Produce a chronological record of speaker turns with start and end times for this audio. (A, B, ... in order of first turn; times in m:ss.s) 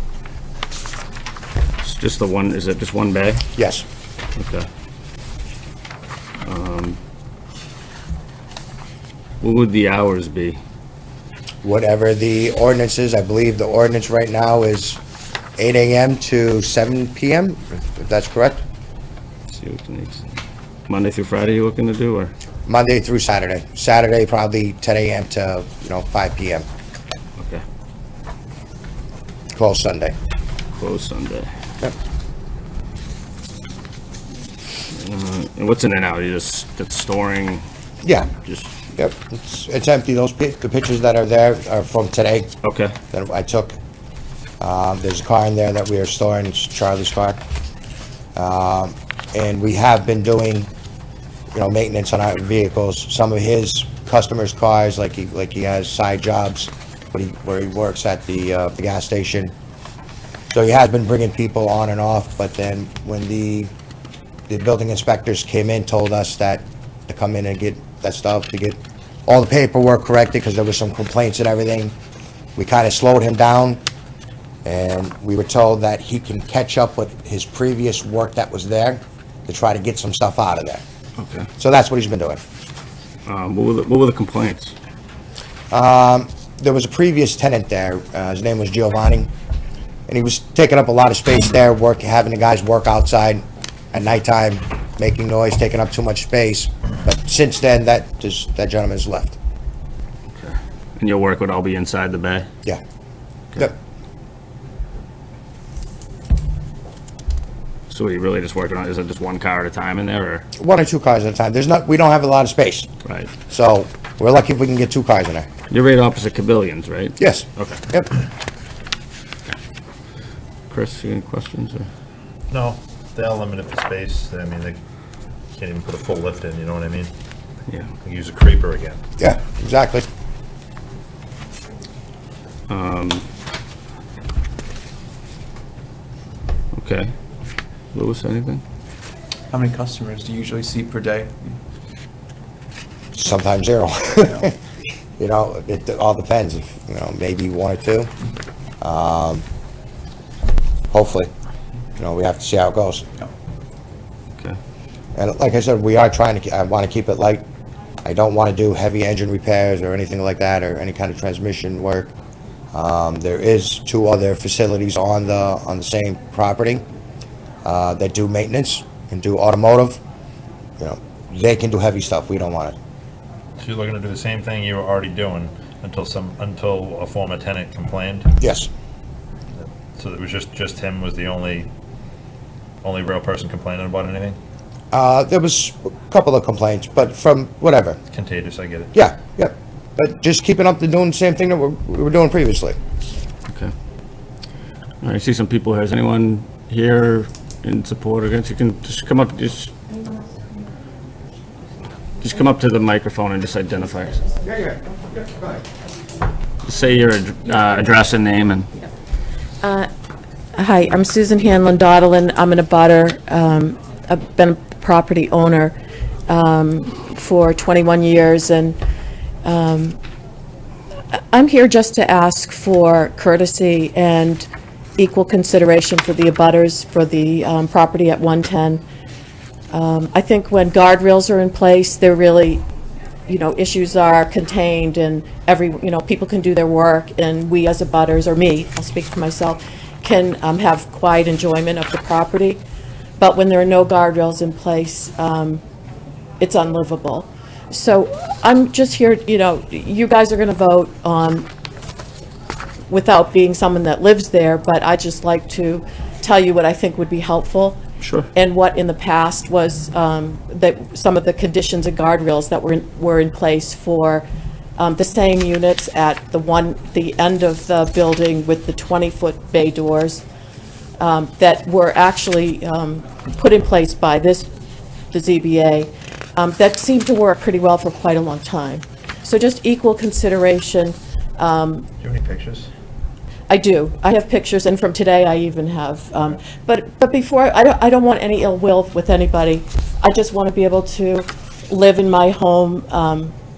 0:01.8-0:03.4 A
0:03.6-0:03.8 B
0:04.4-0:04.7 A
0:06.5-0:07.0 A
0:09.4-0:10.6 A
0:11.6-0:15.0 B
0:15.6-0:18.6 B
0:19.5-0:20.3 A
0:20.9-0:22.3 A
0:22.7-0:26.7 B
0:29.6-0:30.2 B
0:30.8-0:31.5 A
0:34.9-0:37.6 A
0:38.0-0:38.3 B
0:38.4-0:38.7 A
0:39.0-0:42.5 B
0:42.6-0:43.0 A
0:43.1-0:43.8 B
0:44.6-0:47.4 B
0:48.4-0:50.7 B
0:51.5-0:59.5 B
1:00.5-1:03.7 B
1:04.5-1:12.0 B
1:12.6-1:13.8 B
1:14.6-1:20.8 B
1:21.2-1:21.5 A
1:21.6-1:22.4 B
1:23.3-1:24.7 A
1:25.7-1:29.3 B
1:30.1-1:39.4 B
1:40.3-1:42.5 A
1:47.9-1:50.5 A
1:50.6-1:52.9 B
1:53.0-1:53.3 A
1:53.5-1:55.5 B
1:55.7-1:57.8 A
1:57.2-1:58.2 B
2:00.7-2:01.9 A
2:02.5-2:04.8 C
2:05.5-2:07.1 C
2:08.0-2:09.0 C
2:09.2-2:10.1 B
2:12.7-2:13.2 A
2:16.7-2:17.1 A
2:17.9-2:18.6 A
2:19.5-2:21.6 D
2:23.1-2:24.6 B
2:25.2-2:28.1 B
2:28.8-2:29.4 B
2:30.9-2:31.3 B
2:32.0-2:33.1 B
2:35.2-2:37.5 B
2:38.0-2:42.2 B
2:42.7-2:46.8 B
2:47.6-2:50.0 B
2:50.8-2:52.8 B
2:53.6-2:58.3 C
2:58.4-2:58.7 B
2:59.5-3:01.7 C
3:02.8-3:04.4 C
3:04.9-3:08.0 B
3:08.1-3:08.9 C
3:08.9-3:12.8 B
3:15.0-3:19.8 A
3:22.2-3:24.3 A
3:26.6-3:28.7 A
3:29.6-3:29.9 E
3:30.6-3:35.8 E
3:36.3-3:38.8 E
3:39.4-3:40.0 E
3:41.1-3:48.8 E
3:49.7-3:52.6 E
3:53.3-4:02.6 E
4:03.2-4:05.6 E
4:06.4-4:11.5 E
4:12.9-4:17.8 E
4:18.0-4:18.3 A
4:18.3-4:24.2 E
4:24.8-4:30.2 E
4:31.0-4:34.5 E
4:35.1-4:41.9 E
4:42.0-4:42.7 C
4:43.5-4:53.4 E